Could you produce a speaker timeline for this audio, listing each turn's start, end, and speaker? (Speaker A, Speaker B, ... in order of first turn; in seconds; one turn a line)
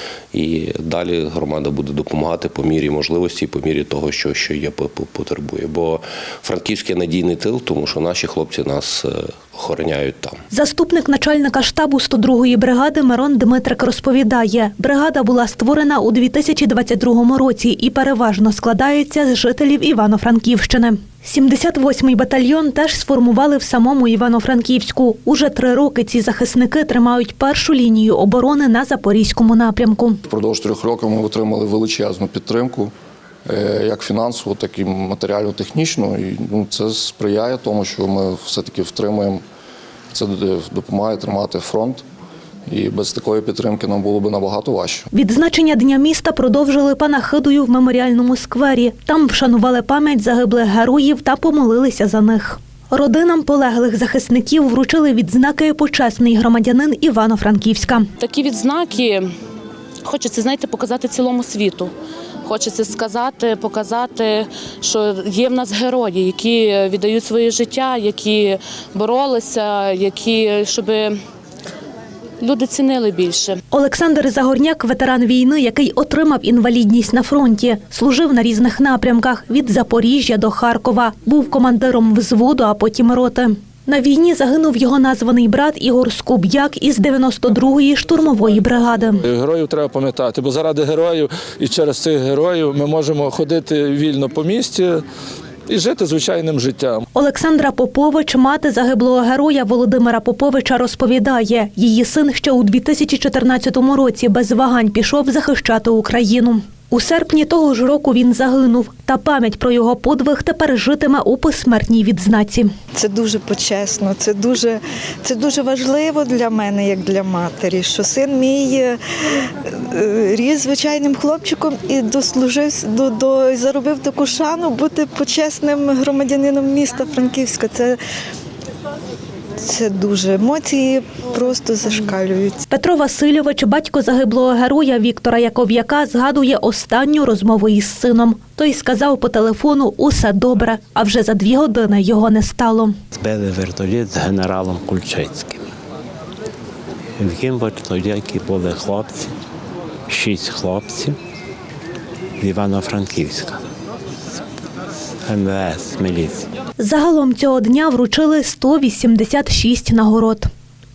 Speaker A: 0.3-10.4
Speaker B: 10.5-30.2
Speaker C: 30.3-32.9
Speaker C: 33.5-39.4
Speaker C: 40.1-42.0
Speaker C: 42.7-45.1
Speaker B: 45.1-58.1
Speaker D: 58.2-59.3
Speaker D: 60.0-61.9
Speaker D: 62.5-71.2
Speaker D: 72.4-73.6
Speaker B: 73.7-89.2
Speaker E: 89.3-95.0
Speaker E: 95.7-97.0
Speaker B: 97.2-112.7
Speaker F: 113.0-119.0
Speaker F: 119.6-128.0
Speaker F: 129.6-132.6
Speaker B: 132.7-142.9
Speaker G: 143.1-145.7
Speaker G: 147.2-149.3
Speaker G: 150.1-151.2
Speaker G: 152.4-153.6
Speaker G: 155.3-156.5
Speaker B: 156.8-160.5